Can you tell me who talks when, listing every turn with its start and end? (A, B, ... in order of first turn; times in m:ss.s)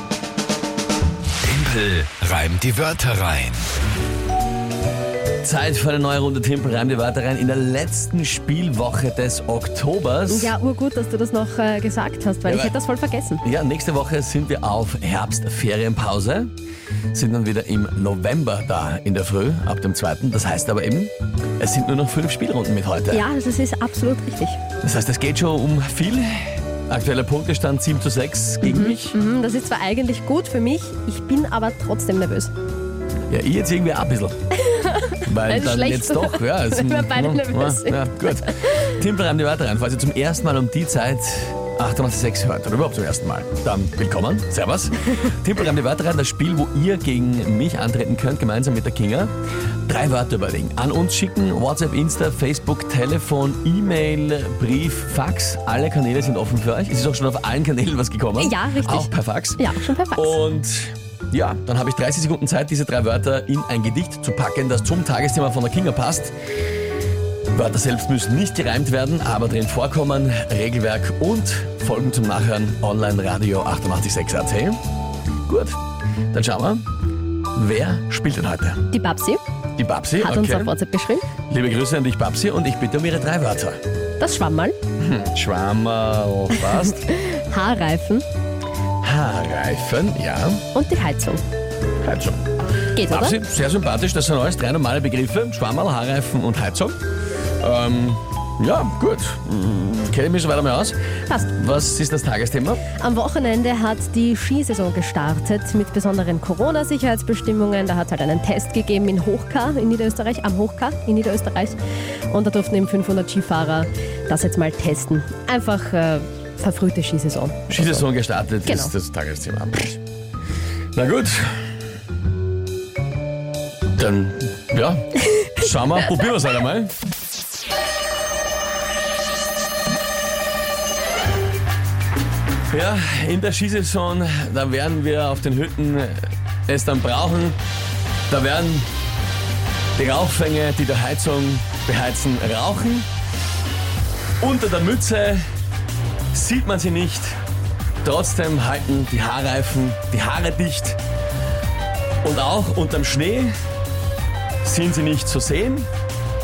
0:01.4-0:03.6 A
0:05.4-0:10.5 B
0:10.3-0:13.4 C
0:12.4-0:12.8 B
0:13.4-0:16.5 B
0:17.1-0:23.2 B
0:23.1-0:24.6 C
0:24.8-0:29.2 B
0:28.6-0:32.5 C
0:33.3-0:34.4 B
0:34.6-0:38.8 C
0:35.2-0:49.3 B
0:49.8-1:06.3 B
0:58.4-1:00.4 C
1:07.5-1:14.8 B
1:15.5-1:15.8 B
1:16.3-1:16.9 B
1:17.5-1:18.9 B
1:18.9-1:19.4 C
1:19.8-1:20.7 B
1:20.2-1:21.3 C
1:21.5-1:23.8 B
1:24.2-1:24.8 C
1:25.0-1:27.1 B
1:26.9-1:28.2 C
1:29.0-1:30.6 B
1:30.7-1:31.4 C
1:32.0-1:32.4 B
1:32.9-1:33.4 C
1:33.0-1:37.0 B
1:37.6-1:42.8 B
1:42.9-1:51.8 C
1:52.3-1:58.1 C
1:57.7-2:00.0 B
1:58.6-1:58.9 C
2:00.9-2:01.6 B
2:03.9-2:06.9 B
2:12.7-2:17.6 B
2:18.3-2:18.9 B
2:19.9-2:23.1 B
2:24.4-2:25.4 B
2:26.3-2:27.4 B
2:28.0-2:31.0 B
2:32.2-2:33.5 B
2:34.6-2:35.9 B